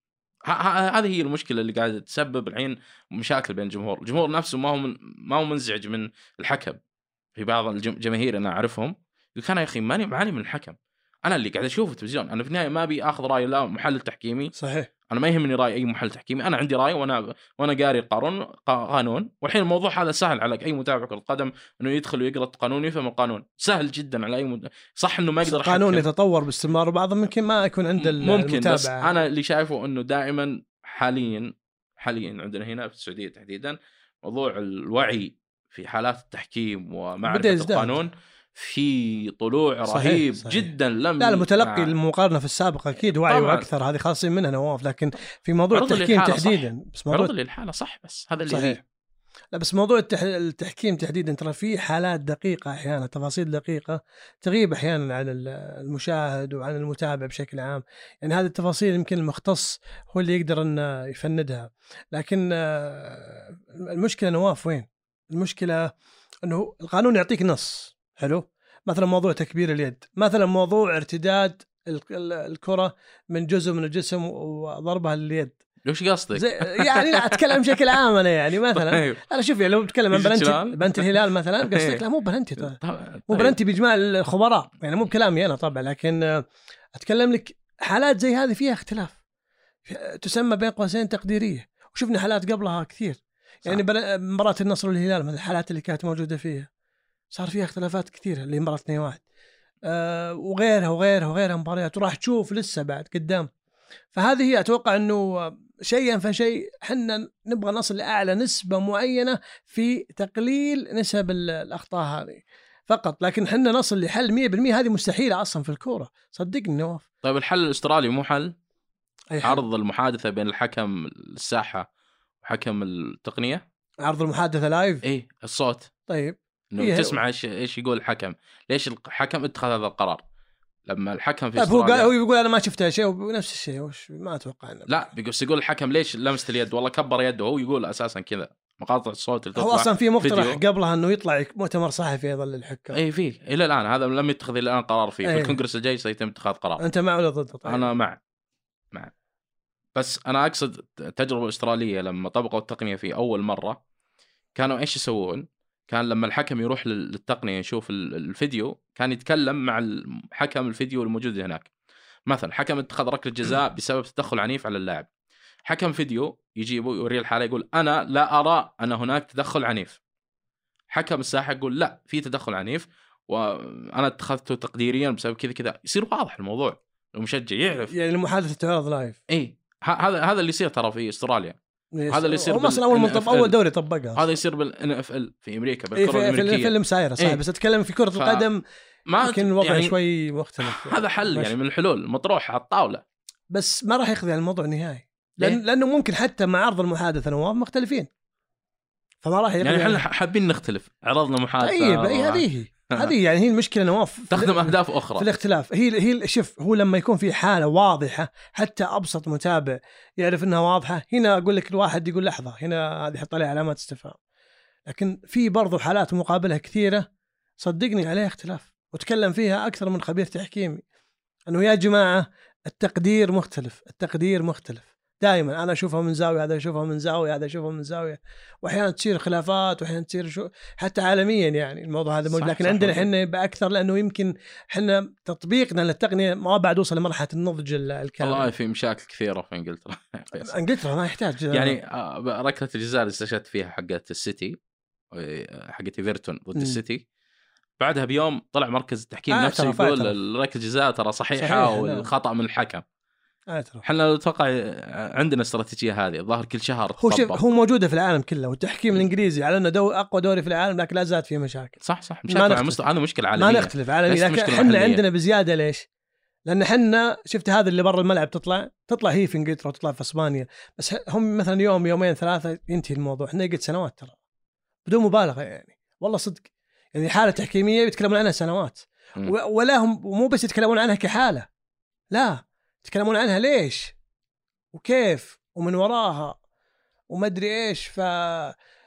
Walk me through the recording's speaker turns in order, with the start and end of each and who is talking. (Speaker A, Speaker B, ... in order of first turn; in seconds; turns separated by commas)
Speaker A: 0.5-6.8, Speaker A: 7.4-14.5, Speaker B: 14.6-14.9, Speaker A: 15.1-26.1, Speaker B: 25.4-29.1, Speaker A: 28.0-41.9, Speaker B: 37.3-38.0, Speaker B: 39.9-47.3, Speaker A: 43.1-43.7, Speaker A: 45.7-48.8, Speaker B: 48.5-48.8, Speaker B: 49.5-65.9, Speaker B: 66.5-75.6, Speaker A: 75.8-77.8, Speaker B: 76.3-86.4, Speaker A: 78.8-79.2, Speaker A: 80.1-81.1, Speaker A: 81.7-82.0, Speaker A: 82.6-83.6, Speaker B: 87.0-89.2, Speaker B: 89.9-96.7, Speaker B: 97.3-99.2, Speaker B: 99.9-103.5, Speaker B: 104.1-117.0, Speaker A: 117.2-118.5, Speaker B: 119.3-119.6, Speaker A: 119.4-121.9, Speaker A: 122.4-123.6, Speaker B: 124.0-125.0, Speaker A: 125.0-125.9, Speaker B: 126.1-127.2, Speaker A: 126.7-130.2, Speaker A: 130.9-132.1, Speaker B: 131.6-135.0, Speaker A: 134.9-140.6, Speaker B: 139.6-143.0, Speaker A: 142.9-146.8, Speaker B: 145.2-145.6, Speaker B: 146.8-147.9, Speaker A: 147.7-148.2, Speaker A: 150.0-153.8, Speaker A: 154.6-161.7, Speaker A: 162.3-165.1, Speaker A: 165.7-170.0, Speaker A: 170.9-177.9, Speaker B: 177.9-179.2, Speaker A: 179.3-181.6, Speaker B: 182.0-184.3, Speaker A: 182.1-183.5, Speaker A: 184.2-187.4, Speaker B: 186.0-188.6, Speaker A: 188.2-188.4, Speaker A: 189.1-190.0, Speaker B: 189.2-191.5, Speaker A: 190.6-193.0, Speaker B: 193.5-198.1, Speaker B: 199.2-200.0, Speaker A: 199.6-203.1, Speaker B: 201.6-214.2, Speaker A: 204.3-205.3, Speaker B: 214.9-217.1, Speaker B: 217.6-220.8, Speaker B: 221.5-238.5, Speaker A: 232.3-233.1, Speaker A: 238.2-240.6, Speaker B: 240.4-241.8, Speaker A: 241.5-244.6, Speaker A: 245.1-247.0, Speaker A: 247.8-252.8, Speaker B: 249.3-250.2, Speaker B: 251.4-252.1, Speaker B: 253.5-253.8, Speaker A: 253.8-257.4, Speaker B: 257.0-262.8, Speaker A: 261.8-265.0, Speaker B: 263.4-265.9, Speaker B: 266.5-274.2, Speaker B: 274.9-281.5, Speaker B: 282.1-283.9, Speaker B: 284.7-286.4, Speaker B: 287.1-288.6